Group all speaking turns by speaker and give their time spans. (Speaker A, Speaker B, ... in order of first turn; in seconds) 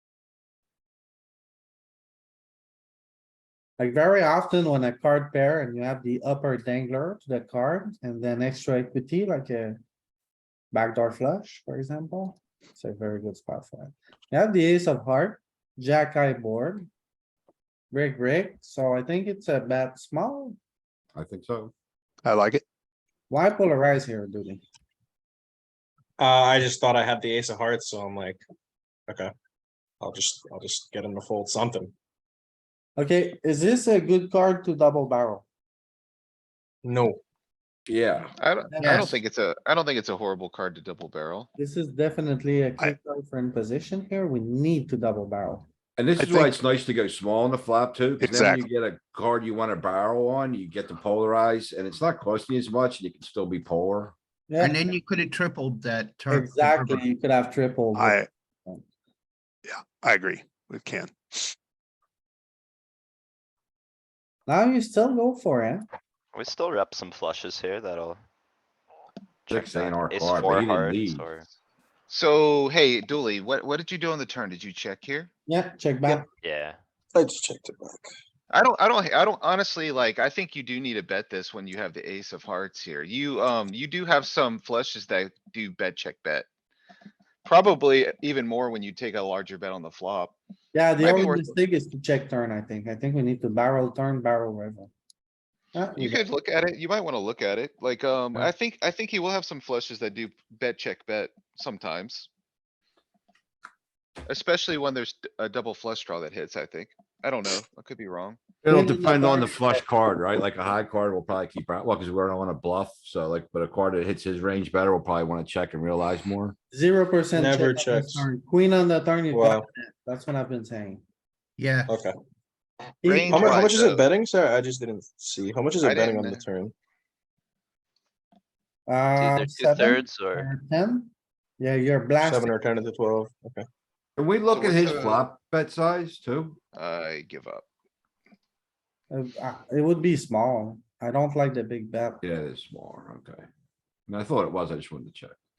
Speaker A: 3.8-9.8, 10.7-16.9, 17.9-20.6, 23.3-24.6, 33.0-35.5, 38.7-39.2, 41.6-45.6, 54.5-54.8, 56.3-58.8, 64.5-65.9, 75.5-76.2, 90.7-94.9, 95.8-96.2, 108.7-109.8, 116.7-121.0, 123.0-123.6, 128.9-132.5, 139.1-142.2
Speaker B: 21.1-21.7, 37.9-38.3, 46.0-54.1, 69.5-71.2, 108.6-116.6, 134.2-136.6, 142.2-143.5, 144.1-145.4
Speaker C: 22.2-22.6, 46.2-46.5, 48.2-48.7, 58.0-58.3, 59.7-61.5
Speaker D: 26.2-28.4, 30.0-31.9, 36.8-37.2, 77.1-78.1, 117.3-118.3, 119.3-119.7, 121.9-122.2, 123.3-126.7, 132.2-133.7
Speaker E: 38.4-41.5, 72.1-75.3, 78.5-86.5, 87.5-90.3, 91.0-91.6, 96.0-102.3, 104.3-108.4, 123.0-124.1, 125.8-126.5, 134.5-135.3, 136.7-137.7
Speaker F: 54.6-57.0, 121.6-122.0
Speaker G: 66.3-68.2, 69.5-71.5, 76.4-76.8, 129.2-130.5